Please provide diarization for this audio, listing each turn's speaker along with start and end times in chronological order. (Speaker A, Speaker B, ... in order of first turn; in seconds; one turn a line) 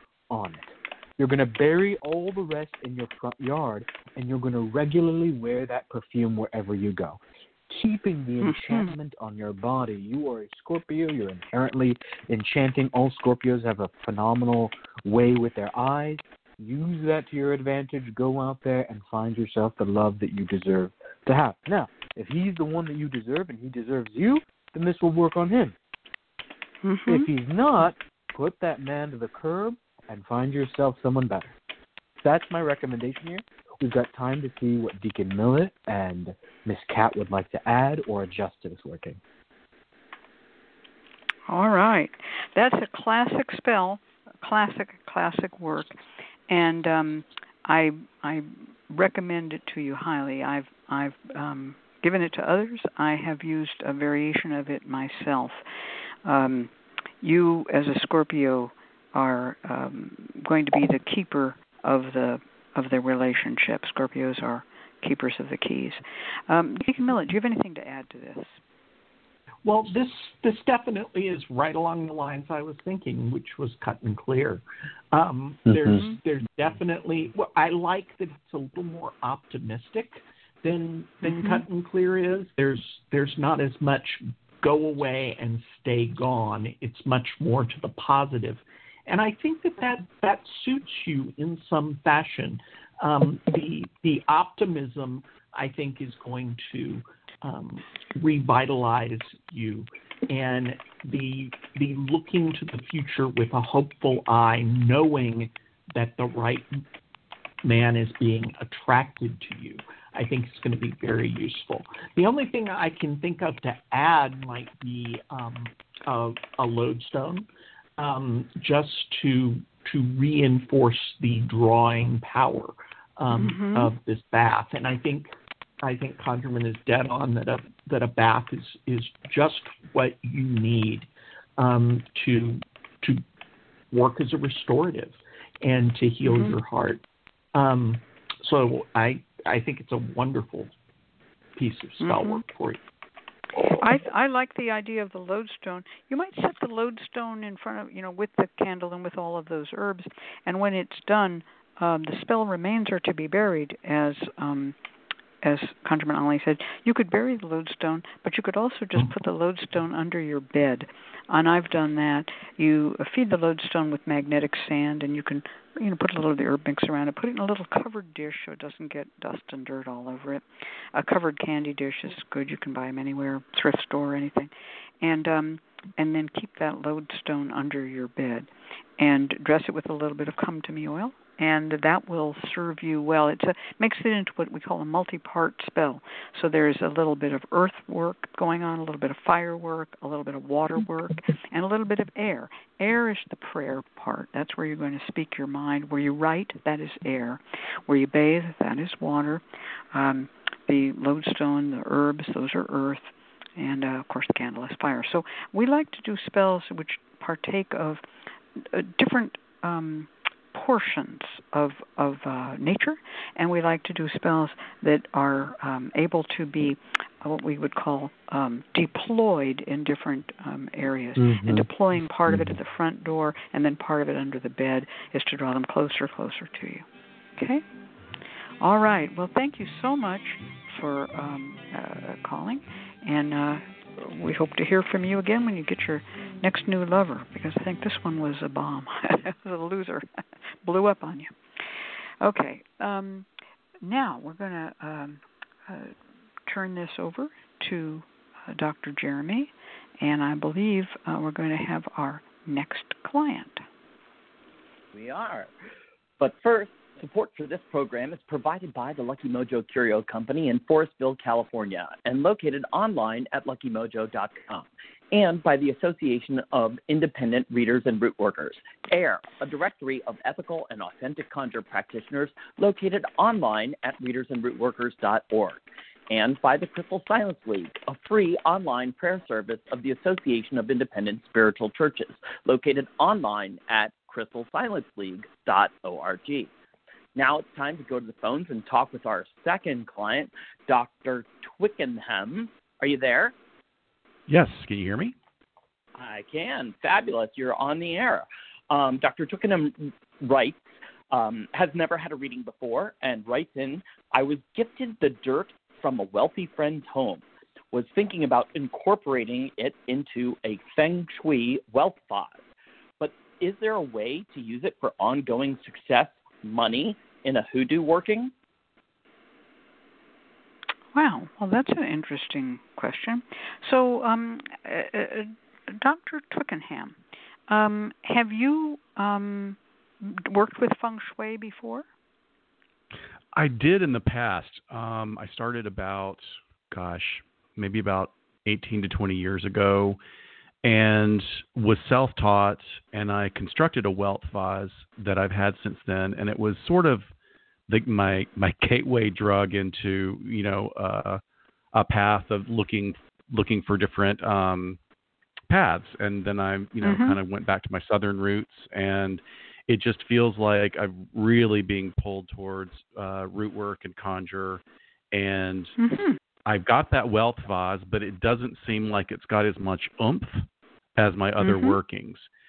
Speaker A: 0.3-25.8
Speaker B: 8.4-8.9
Speaker B: 26.8-27.3
Speaker A: 27.1-31.6
Speaker A: 32.2-39.2
Speaker B: 41.5-46.0
Speaker B: 46.5-55.6
Speaker B: 56.2-68.6
Speaker C: 69.7-106.8
Speaker A: 75.7-76.0
Speaker B: 81.2-81.6
Speaker C: 107.6-117.5
Speaker C: 118.0-125.3
Speaker B: 123.3-123.9
Speaker C: 125.8-133.2
Speaker C: 133.9-137.0
Speaker B: 136.3-136.6
Speaker C: 137.6-140.7
Speaker C: 141.6-142.8
Speaker B: 142.0-142.4
Speaker B: 143.7-154.8
Speaker B: 155.4-208.0
Speaker B: 208.6-226.8
Speaker A: 221.2-221.7
Speaker B: 227.4-227.6
Speaker B: 228.6-240.1
Speaker B: 240.6-241.3
Speaker B: 242.2-243.3
Speaker B: 243.8-245.9
Speaker B: 246.5-253.6
Speaker D: 254.9-255.5
Speaker D: 256.2-286.5
Speaker D: 287.2-293.3
Speaker E: 294.3-295.2
Speaker D: 296.0-312.4
Speaker D: 313.0-318.3
Speaker B: 320.9-331.9
Speaker E: 333.3-340.0
Speaker E: 340.6-347.1
Speaker E: 347.7-351.2
Speaker E: 351.7-354.8
Speaker E: 355.5-365.8
Speaker B: 356.8-357.2
Speaker B: 365.8-366.2
Speaker E: 366.5-370.4
Speaker E: 371.0-372.3
Speaker B: 371.4-371.8